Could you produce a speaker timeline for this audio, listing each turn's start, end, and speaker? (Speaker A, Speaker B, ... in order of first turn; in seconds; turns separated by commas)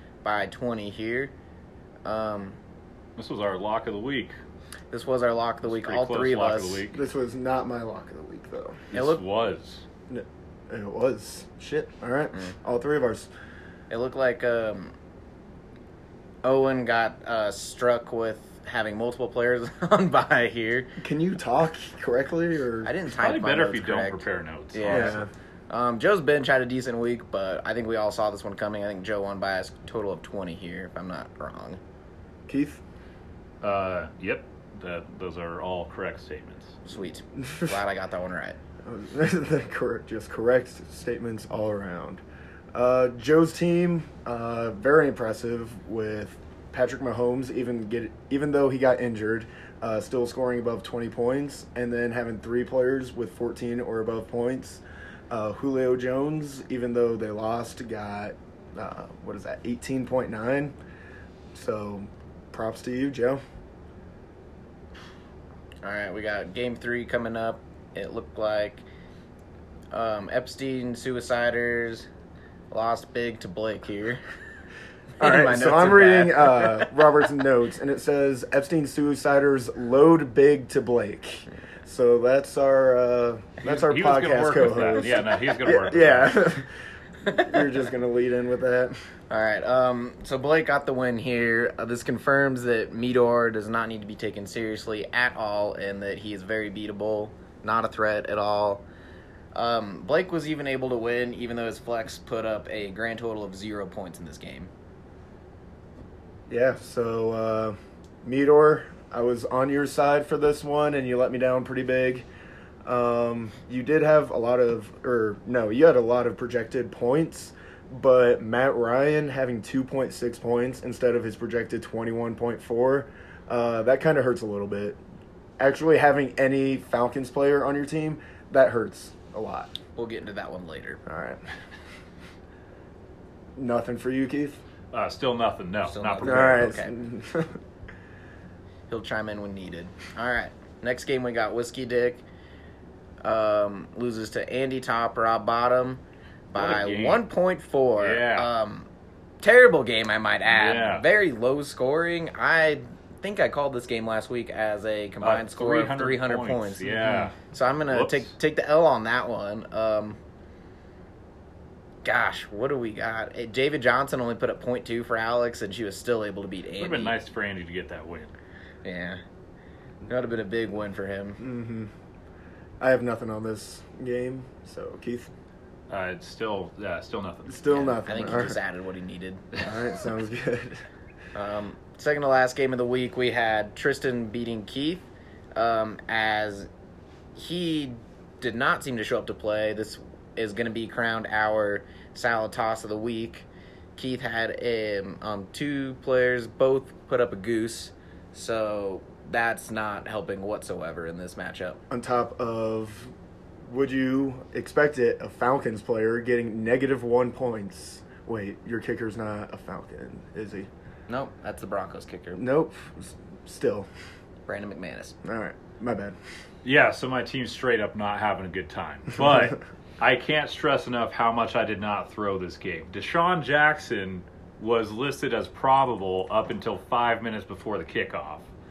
Speaker A: 0.2-1.3, Speaker A: 2.0-2.6, Speaker B: 3.2-4.4, Speaker A: 4.9-6.9, Speaker B: 5.7-7.0, Speaker C: 6.9-8.9, Speaker B: 8.9-9.8, Speaker A: 8.9-9.2, Speaker C: 10.1-13.3, Speaker A: 13.9-14.9, Speaker A: 16.4-20.9, Speaker C: 21.0-22.9, Speaker A: 22.8-31.8, Speaker B: 23.2-25.3, Speaker C: 24.9-25.3, Speaker C: 32.5-32.8, Speaker B: 33.6-36.8, Speaker A: 36.9-38.6, Speaker C: 37.4-37.8, Speaker C: 38.8-42.2, Speaker C: 42.7-60.8, Speaker C: 61.5-63.4, Speaker A: 65.8-68.8, Speaker A: 69.9-72.1, Speaker A: 72.7-74.2, Speaker A: 75.2-77.0, Speaker C: 75.2-86.7, Speaker B: 83.6-86.5, Speaker C: 87.2-89.0, Speaker A: 89.3-98.8, Speaker A: 99.5-104.7, Speaker C: 106.5-112.3, Speaker C: 112.8-125.0, Speaker C: 125.6-129.7, Speaker A: 130.0-131.0, Speaker C: 131.1-131.4, Speaker C: 133.6-134.6, Speaker B: 134.9-136.8, Speaker A: 135.8-136.9, Speaker C: 136.2-137.6, Speaker A: 138.9-142.2, Speaker A: 143.2-148.9, Speaker B: 146.6-147.2, Speaker B: 148.0-148.5, Speaker A: 149.4-160.2, Speaker B: 150.5-151.1, Speaker B: 155.2-157.3, Speaker C: 157.0-157.3, Speaker B: 157.9-158.3, Speaker A: 162.0-167.2, Speaker B: 166.8-168.3, Speaker A: 168.8-169.2, Speaker A: 170.1-171.4, Speaker C: 171.4-171.9, Speaker C: 172.8-175.3, Speaker B: 175.9-178.0, Speaker C: 177.5-178.6, Speaker A: 177.7-179.6, Speaker C: 179.6-180.8, Speaker A: 181.3-186.7, Speaker A: 187.3-201.8, Speaker C: 201.9-203.1, Speaker C: 203.7-210.7, Speaker A: 211.1-212.4, Speaker C: 212.3-213.9, Speaker A: 214.5-215.2, Speaker C: 215.2-216.2, Speaker B: 216.6-228.5